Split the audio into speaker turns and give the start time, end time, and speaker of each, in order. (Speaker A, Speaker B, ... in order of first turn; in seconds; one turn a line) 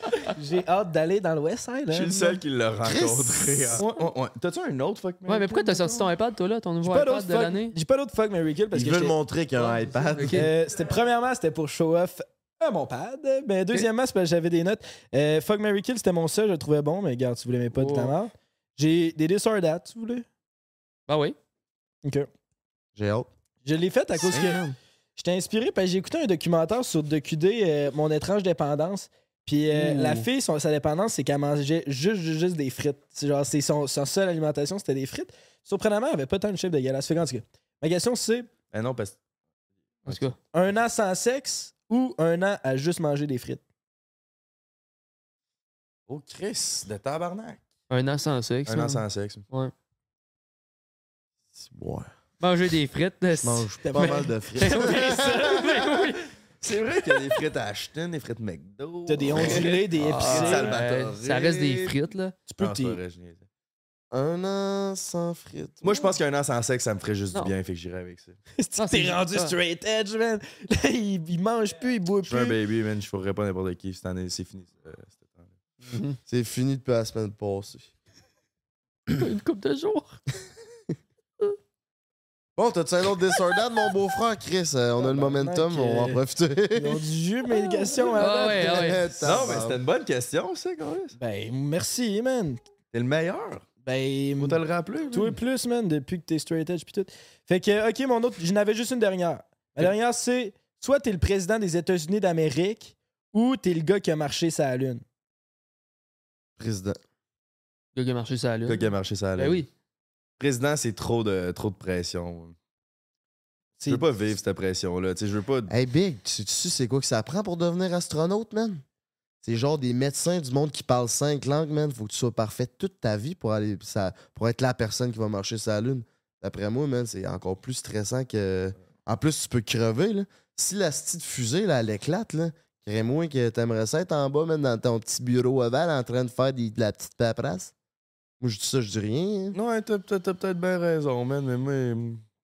Speaker A: 0.3-2.4
Speaker B: 1.9-6.1
Speaker C: 2.8-3.8
Speaker D: 5.3-7.8
Speaker A: 6.8-9.1
Speaker C: 8.7-10.5
Speaker D: 10.1-10.5
Speaker A: 10.3-20.3
Speaker D: 17.7-18.1
Speaker D: 21.1-21.4
Speaker A: 22.0-22.3
Speaker C: 22.9-23.3
Speaker A: 23.6-24.6
Speaker A: 25.2-38.5
Speaker B: 38.7-39.2
Speaker B: 40.0-40.3
Speaker D: 40.0-40.4
Speaker A: 40.5-43.6
Speaker B: 46.1-47.6
Speaker D: 47.9-49.7
Speaker B: 48.7-49.4
Speaker C: 51.6-52.1
Speaker D: 52.4-56.3
Speaker C: 53.4-55.8
Speaker A: 53.8-54.3
Speaker B: 56.6-61.9
Speaker A: 59.1-60.7
Speaker D: 60.0-62.4
Speaker A: 62.5-63.0
Speaker B: 62.6-63.5
Speaker C: 64.1-66.1
Speaker B: 65.8-68.4
Speaker A: 68.6-72.6
Speaker D: 68.8-69.5
Speaker B: 72.2-75.5
Speaker C: 76.3-77.9
Speaker D: 79.1-80.2
Speaker C: 82.6-87.0
Speaker A: 85.0-86.2
Speaker A: 86.7-89.3
Speaker D: 87.5-89.0
Speaker C: 88.6-89.8
Speaker B: 89.2-91.2
Speaker A: 91.2-92.6
Speaker B: 92.9-93.6
Speaker A: 93.8-105.0
Speaker B: 94.4-95.4
Speaker C: 106.6-107.0
Speaker D: 107.9-108.8
Speaker B: 108.6-109.6
Speaker D: 109.4-109.7
Speaker B: 110.4-112.5
Speaker A: 113.8-114.0
Speaker B: 113.8-115.7
Speaker C: 115.7-118.8
Speaker C: 119.4-137.7
Speaker C: 138.4-139.6
Speaker B: 139.5-142.2